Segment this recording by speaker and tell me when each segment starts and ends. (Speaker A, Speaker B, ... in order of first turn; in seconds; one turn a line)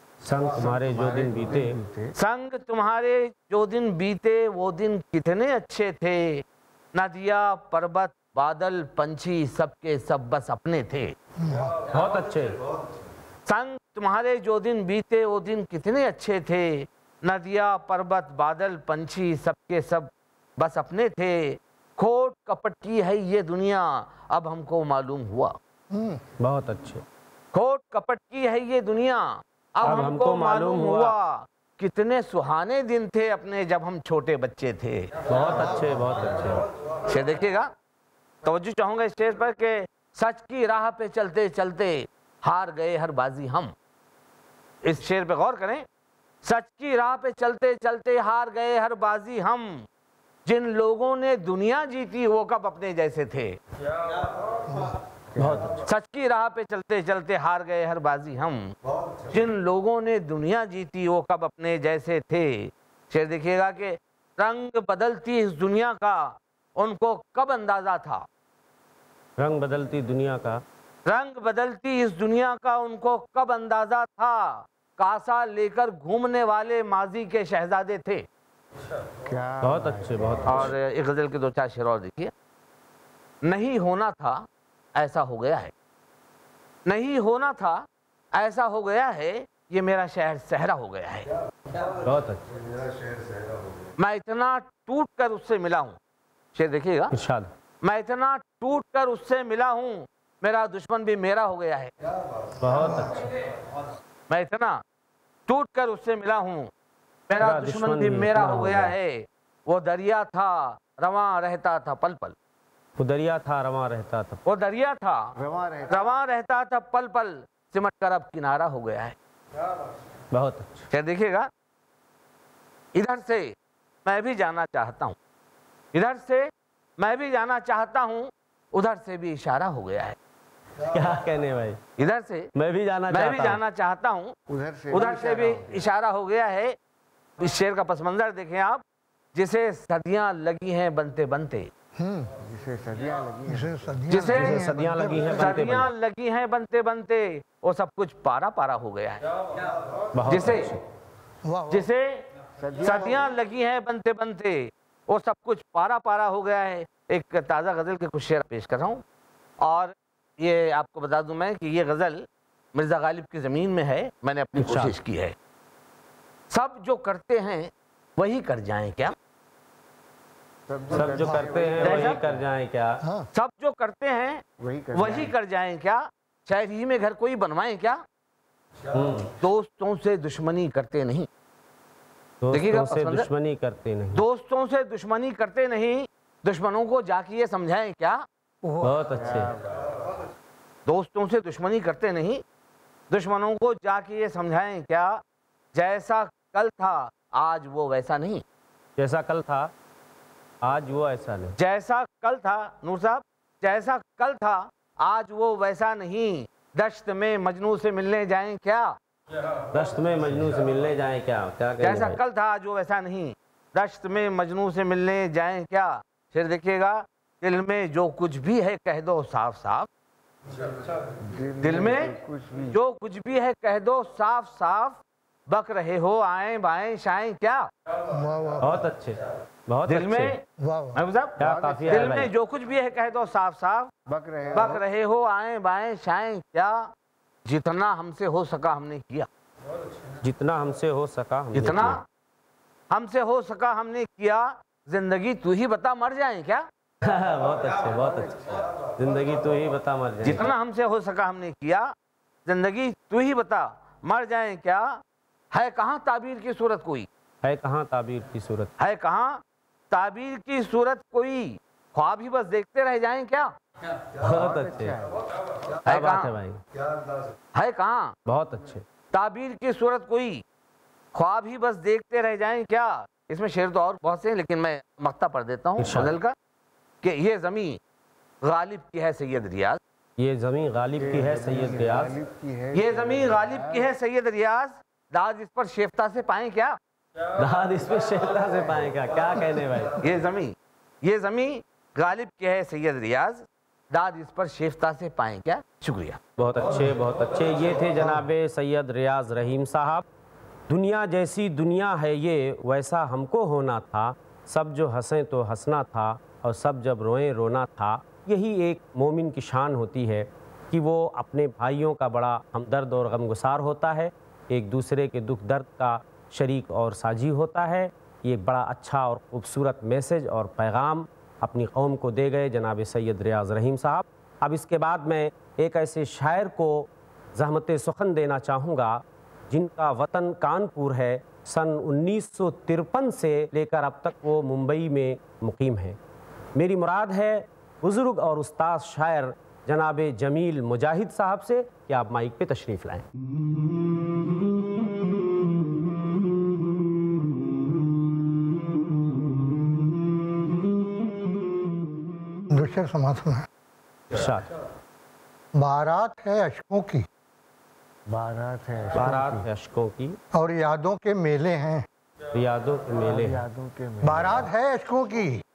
Speaker A: 0.2-1.8
Speaker B: 0.6-2.1
Speaker C: 2.1-11.1
Speaker D: 11.4-11.7
Speaker A: 11.9-12.6
Speaker C: 13.4-25.5
Speaker D: 25.9-26.2
Speaker A: 26.4-27.0
Speaker C: 27.5-35.3
Speaker A: 29.8-31.1
Speaker A: 35.3-36.7
Speaker C: 37.1-37.7
Speaker C: 38.4-43.7
Speaker C: 44.8-45.8
Speaker C: 46.4-49.9
Speaker C: 50.5-53.6
Speaker D: 54.7-54.9
Speaker B: 55.4-55.7
Speaker A: 55.4-55.8
Speaker C: 55.8-58.7
Speaker C: 59.3-68.2
Speaker A: 69.4-70.6
Speaker C: 71.0-78.2
Speaker B: 79.2-80.7
Speaker A: 79.6-80.7
Speaker C: 80.5-82.3
Speaker C: 83.4-85.7
Speaker C: 86.8-91.3
Speaker A: 92.0-92.4
Speaker C: 94.0-96.0
Speaker C: 96.5-97.1
Speaker A: 97.1-97.5
Speaker C: 97.8-101.9
Speaker A: 102.6-103.2
Speaker C: 104.3-104.8
Speaker C: 105.5-106.7
Speaker C: 107.3-112.3
Speaker A: 107.4-108.9
Speaker A: 113.0-114.4
Speaker C: 114.4-115.3
Speaker B: 115.3-116.0
Speaker C: 115.9-119.1
Speaker A: 120.3-120.9
Speaker C: 120.9-121.5
Speaker C: 122.9-123.5
Speaker C: 124.0-125.2
Speaker C: 125.9-130.2
Speaker A: 130.8-131.8
Speaker C: 132.0-132.5
Speaker A: 132.5-133.6
Speaker C: 133.1-134.3
Speaker B: 134.5-135.9
Speaker C: 134.9-136.7
Speaker C: 137.4-138.8
Speaker C: 139.3-141.7
Speaker D: 142.0-142.3
Speaker B: 142.4-144.3
Speaker D: 143.5-145.5
Speaker C: 144.1-144.6
Speaker A: 144.3-145.9
Speaker C: 145.2-149.2
Speaker A: 150.1-150.8
Speaker C: 150.2-150.7
Speaker D: 151.4-151.9
Speaker C: 151.7-152.2
Speaker B: 152.6-153.2
Speaker C: 152.8-159.0
Speaker C: 159.6-165.3
Speaker A: 164.6-164.9
Speaker C: 166.5-169.1
Speaker B: 170.7-172.4
Speaker A: 170.9-173.0
Speaker D: 171.2-171.5
Speaker C: 171.8-172.2
Speaker D: 173.0-173.3
Speaker C: 173.3-174.4
Speaker B: 174.6-175.3
Speaker C: 174.9-178.0
Speaker A: 178.9-179.3
Speaker C: 179.3-181.3
Speaker A: 182.4-184.2
Speaker C: 182.5-183.2
Speaker C: 184.1-188.2
Speaker D: 188.6-188.9
Speaker A: 188.8-189.5
Speaker B: 189.1-189.8
Speaker C: 190.8-192.4
Speaker C: 193.1-195.2
Speaker C: 195.7-198.4
Speaker A: 199.0-199.7
Speaker A: 200.6-201.6
Speaker C: 201.6-208.9
Speaker A: 209.7-212.2
Speaker C: 211.8-219.9
Speaker B: 221.2-222.8
Speaker C: 221.6-222.1
Speaker C: 222.7-227.7
Speaker D: 228.1-228.8
Speaker A: 228.6-230.3
Speaker C: 229.9-230.4
Speaker D: 230.6-231.0
Speaker C: 230.9-233.9
Speaker A: 231.4-232.3
Speaker B: 231.4-232.2
Speaker B: 234.1-234.8
Speaker C: 234.5-236.9
Speaker C: 237.4-239.3
Speaker A: 240.2-242.0
Speaker C: 241.5-242.0
Speaker C: 242.9-246.7
Speaker A: 247.0-250.5
Speaker C: 250.2-251.9
Speaker C: 252.4-255.0
Speaker C: 255.5-257.1
Speaker A: 257.4-258.7
Speaker C: 258.8-263.5
Speaker A: 264.2-265.0
Speaker B: 264.2-265.2
Speaker C: 265.9-266.3
Speaker A: 265.9-266.6
Speaker C: 267.5-268.1
Speaker A: 268.2-268.8
Speaker C: 269.1-270.4
Speaker C: 271.1-276.3
Speaker A: 275.8-276.1
Speaker C: 277.0-277.8
Speaker C: 278.4-279.8
Speaker A: 280.2-282.1
Speaker B: 281.0-283.9
Speaker C: 282.7-286.8
Speaker A: 287.4-290.0
Speaker C: 290.0-296.2
Speaker A: 296.4-300.0
Speaker A: 300.7-336.0
Speaker A: 336.5-343.1
Speaker D: 352.5-353.4
Speaker A: 354.1-354.5
Speaker D: 355.5-357.1
Speaker B: 358.1-359.5
Speaker A: 358.9-360.2
Speaker D: 360.3-361.9
Speaker A: 362.3-363.4
Speaker B: 363.0-364.5
Speaker D: 364.0-365.4